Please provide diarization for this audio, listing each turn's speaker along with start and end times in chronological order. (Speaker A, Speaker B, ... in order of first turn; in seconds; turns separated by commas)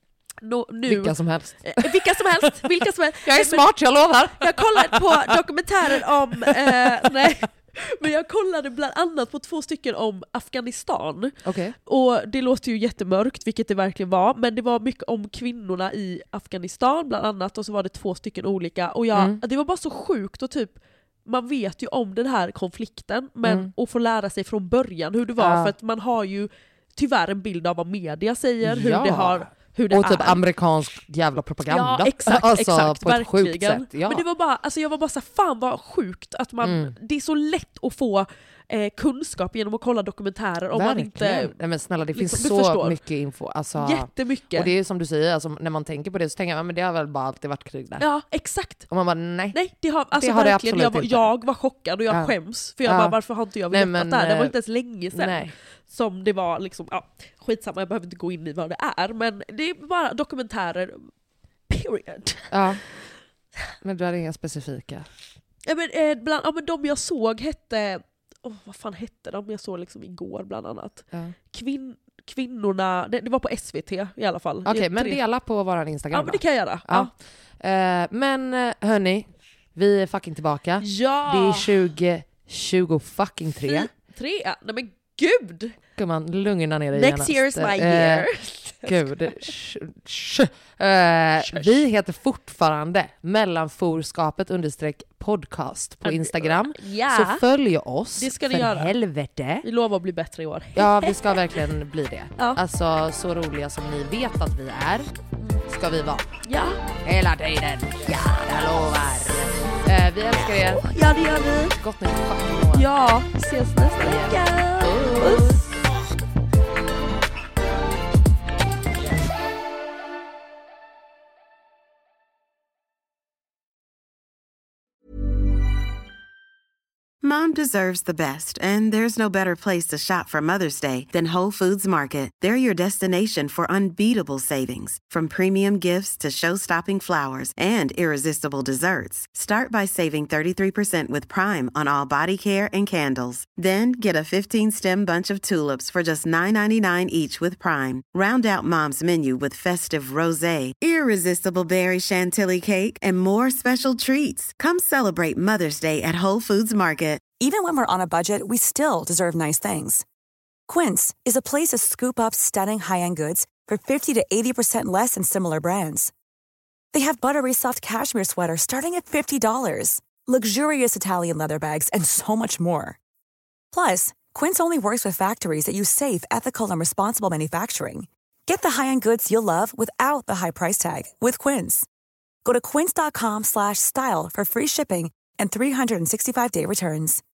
Speaker A: 0.4-3.7, Speaker B: 0.8-2.7, Speaker B: 3.2-7.4, Speaker A: 4.4-30.4, Speaker B: 11.4-11.8, Speaker B: 19.1-19.4, Speaker B: 23.4-23.7, Speaker B: 25.4-25.7, Speaker B: 28.6-34.2, Speaker A: 31.7-41.5, Speaker B: 36.6-36.9, Speaker B: 40.7-48.0, Speaker A: 42.1-43.0, Speaker A: 43.8-44.7, Speaker A: 48.0-48.9, Speaker B: 48.9-49.6, Speaker A: 49.5-61.1, Speaker B: 50.1-51.3, Speaker B: 52.1-53.1, Speaker B: 53.7-54.5, Speaker B: 55.1-55.5, Speaker A: 61.7-62.6, Speaker B: 62.5-62.8, Speaker B: 63.8-65.1, Speaker A: 65.6-75.2, Speaker B: 74.7-83.9, Speaker A: 76.1-77.1, Speaker A: 80.8-81.8, Speaker A: 83.6-85.8, Speaker B: 86.0-88.3, Speaker A: 86.9-89.5, Speaker B: 88.8-99.7, Speaker A: 91.4-91.8, Speaker A: 96.0-97.4, Speaker A: 98.2-98.9, Speaker A: 99.6-101.6, Speaker B: 100.7-105.1, Speaker A: 105.4-105.6, Speaker B: 105.7-106.3, Speaker A: 106.4-106.8, Speaker B: 107.0-110.9, Speaker A: 110.6-111.8, Speaker B: 111.7-112.9, Speaker A: 112.7-115.7, Speaker B: 114.0-114.4, Speaker B: 114.9-115.6, Speaker C: 127.2-157.3, Speaker D: 157.3-160.0, Speaker D: 160.7-166.1, Speaker D: 166.9-173.0, Speaker D: 173.7-181.9, Speaker D: 182.4-187.2